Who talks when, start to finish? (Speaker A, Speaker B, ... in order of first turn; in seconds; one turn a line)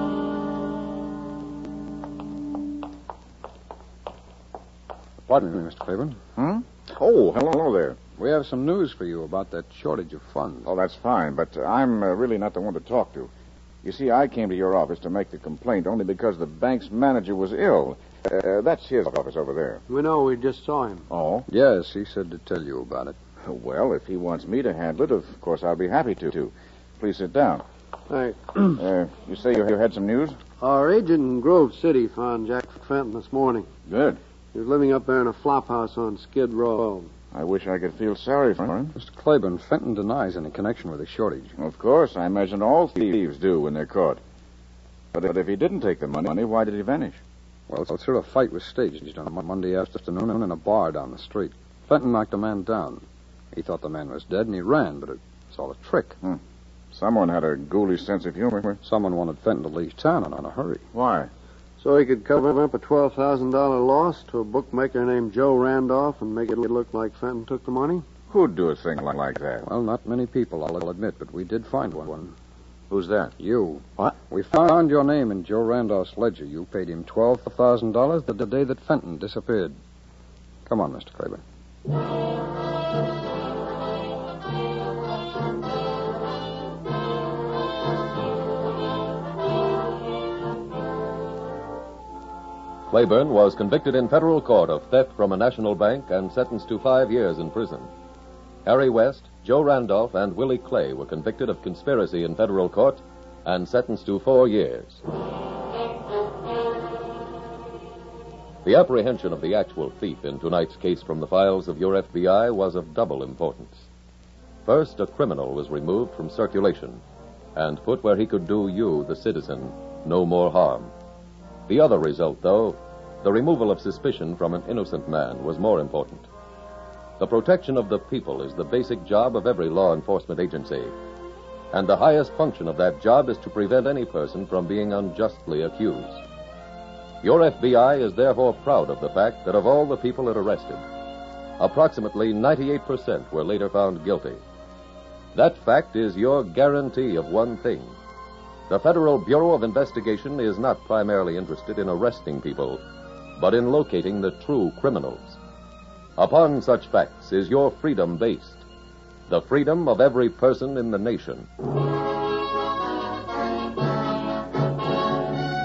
Speaker A: 5.2-6.2
Speaker B: 6.4-8.0
Speaker A: 8.2-10.7
Speaker B: 10.7-13.3
Speaker B: 13.8-19.8
Speaker C: 19.9-21.1
Speaker B: 21.1-21.4
Speaker A: 21.5-23.2
Speaker B: 23.4-27.6
Speaker C: 28.1-28.6
Speaker B: 28.7-30.4
Speaker C: 30.6-33.7
Speaker B: 33.9-34.2
Speaker C: 34.5-37.1
Speaker B: 37.3-38.9
Speaker A: 38.9-41.5
Speaker B: 41.6-44.2
Speaker B: 45.1-47.2
Speaker A: 47.7-56.2
Speaker B: 56.9-58.8
Speaker A: 58.8-60.8
Speaker B: 60.9-61.3
Speaker C: 61.8-68.0
Speaker B: 68.3-69.7
Speaker A: 69.6-72.3
Speaker B: 72.9-73.3
Speaker A: 73.4-79.8
Speaker A: 80.7-81.4
Speaker D: 92.9-97.9
Speaker D: 98.6-105.0
Speaker D: 108.6-113.9
Speaker D: 114.6-117.0
Speaker D: 117.5-120.9
Speaker D: 121.7-126.3
Speaker D: 127.2-130.9
Speaker D: 131.7-136.2
Speaker D: 137.2-140.8
Speaker D: 141.6-144.4
Speaker D: 145.3-147.9
Speaker D: 148.7-152.8
Speaker D: 153.4-155.4
Speaker D: 156.2-158.6
Speaker D: 159.3-161.5